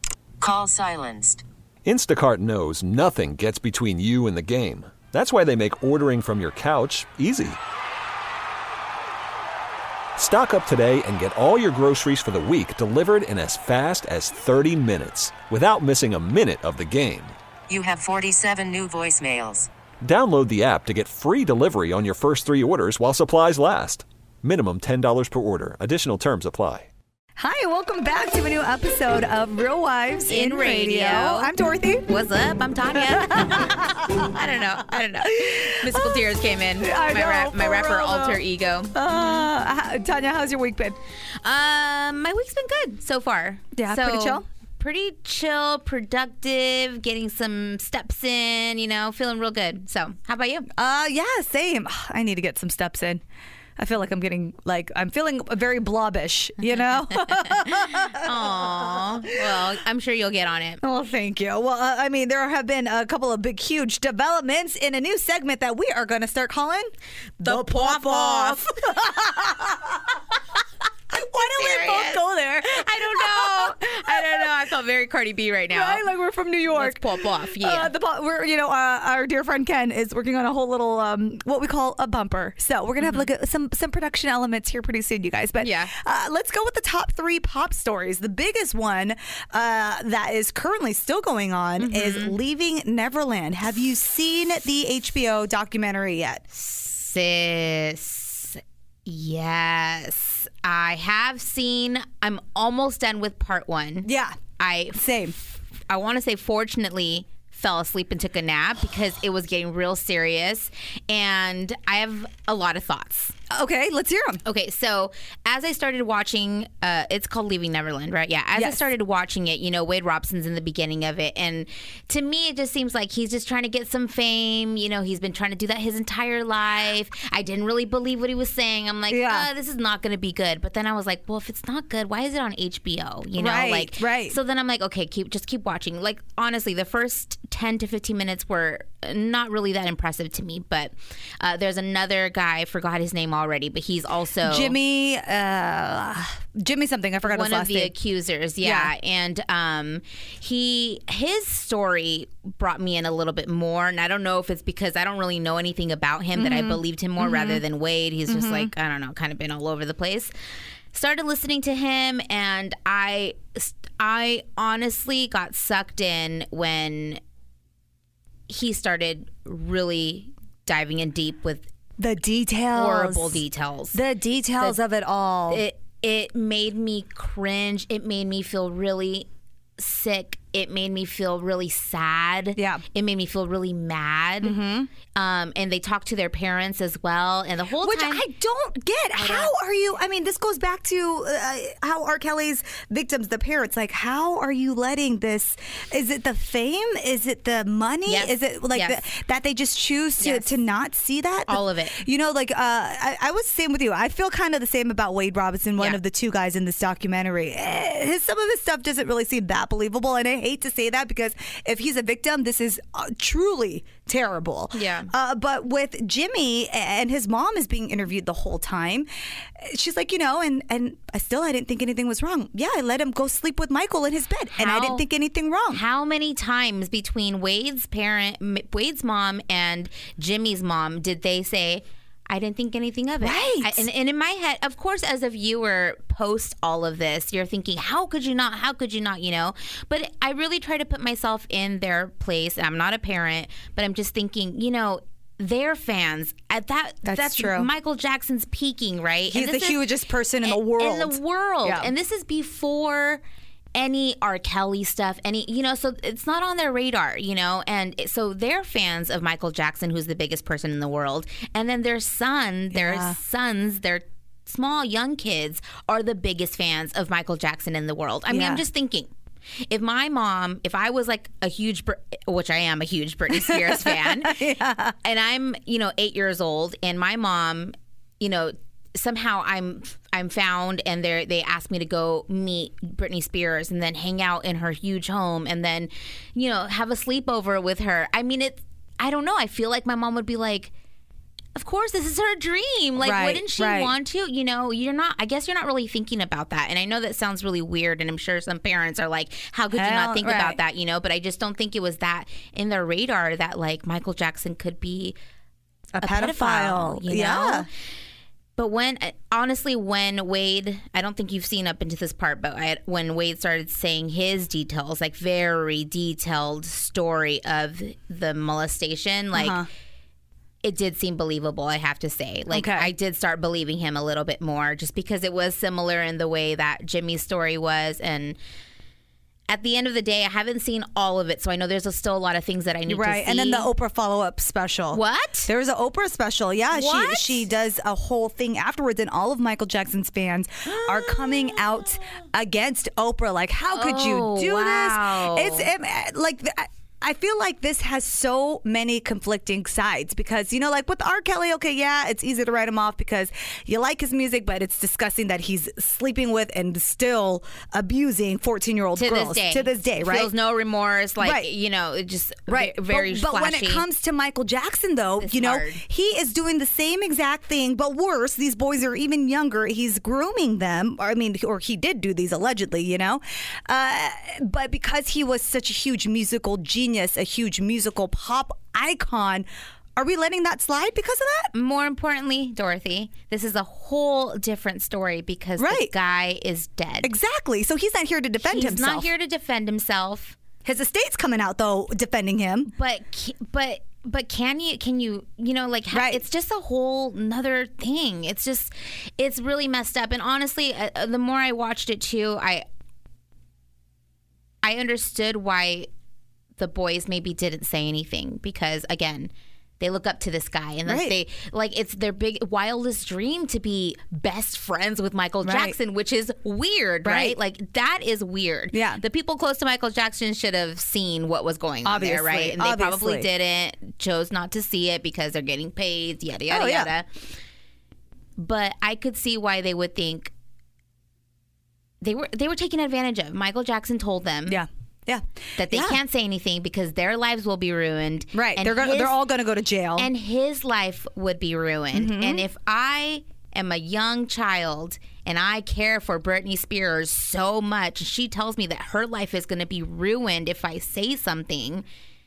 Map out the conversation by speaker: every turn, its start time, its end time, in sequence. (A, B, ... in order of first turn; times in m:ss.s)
0:00.4-0:01.4 A
0:01.8-0:07.6 B
0:10.2-0:17.3 B
0:17.7-0:19.7 A
0:20.0-0:26.9 B
0:27.4-0:32.1 C
0:30.3-0:31.5 D
0:32.1-0:39.5 D
0:32.9-0:34.3 C
0:34.9-0:36.3 C
0:36.8-0:38.4 C
0:38.9-0:41.0 C
0:41.4-0:50.7 D
0:43.8-0:44.4 C
0:50.8-0:53.2 C
0:53.8-0:59.6 C
0:57.1-1:00.8 D
1:00.8-1:10.2 C
1:07.4-1:09.1 D
1:11.1-1:14.5 C
1:11.5-1:16.0 D
1:15.7-1:36.4 C
1:16.7-1:17.9 D
1:23.0-1:23.2 D
1:25.6-1:25.9 D
1:31.8-1:32.4 D
1:36.5-1:45.3 D
1:44.0-1:44.4 C
1:44.9-1:45.3 C
1:45.9-1:53.4 D
1:53.5-1:54.4 C
1:54.4-2:24.8 D
1:58.6-1:58.8 C
2:09.1-2:09.5 C
2:13.4-2:14.3 C
2:24.4-2:27.9 C
2:27.2-2:40.3 D
2:28.6-2:28.9 C
2:36.4-2:37.6 C
2:38.3-2:38.7 C
2:40.9-2:47.2 D
2:48.5-2:51.7 D
2:52.0-2:53.4 C
2:52.7-2:54.0 D
2:53.9-2:55.6 C
2:55.5-3:04.6 D
3:02.6-3:02.8 C
3:04.4-3:04.9 C
3:05.1-3:08.2 D
3:07.8-3:45.8 C
3:09.2-3:09.5 D
3:18.0-3:19.0 D
3:20.2-3:20.6 D
3:21.5-3:22.0 D
3:34.7-3:35.1 D
3:44.6-3:45.0 D
3:45.7-4:09.8 D
3:53.2-3:53.8 C
4:07.0-4:07.7 C
4:09.3-4:11.9 C
4:10.4-4:13.2 D
4:13.7-4:29.1 D
4:22.7-4:23.2 C
4:28.3-4:28.6 C
4:29.7-4:34.4 D
4:33.3-4:34.9 C
4:35.0-4:50.7 D
4:51.6-5:05.2 D
4:53.0-4:53.9 C
4:59.7-5:00.6 C
5:05.9-5:07.7 C
5:06.0-5:07.7 D
5:08.6-5:19.6 D
5:19.3-5:19.7 C
5:20.6-5:28.4 D
5:22.5-5:22.9 C
5:29.5-5:33.7 D
5:32.9-6:00.3 C
5:34.9-5:35.5 D
5:36.7-5:37.4 D
5:40.7-5:41.6 D
5:43.7-5:45.7 D
5:59.0-6:03.8 D
6:01.2-6:01.5 C
6:02.5-6:21.5 C
6:05.2-6:05.8 D
6:21.5-6:27.1 D
6:25.6-6:25.9 C
6:27.0-6:29.1 C
6:28.4-6:30.4 D
6:30.6-6:32.7 C
6:32.7-6:42.6 D
6:35.9-6:36.2 C
6:44.6-6:45.9 D
6:46.6-7:07.1 D
6:50.8-6:51.1 C
6:55.4-6:55.8 C
6:57.0-6:57.4 C
6:58.7-6:59.0 C
7:01.8-7:03.3 C
7:06.5-7:06.9 C
7:08.4-7:10.3 D
7:12.0-7:14.6 D
7:14.5-7:16.0 C
7:15.6-7:19.2 D
7:18.3-7:20.1 C
7:20.0-7:31.8 D
7:21.9-7:22.4 C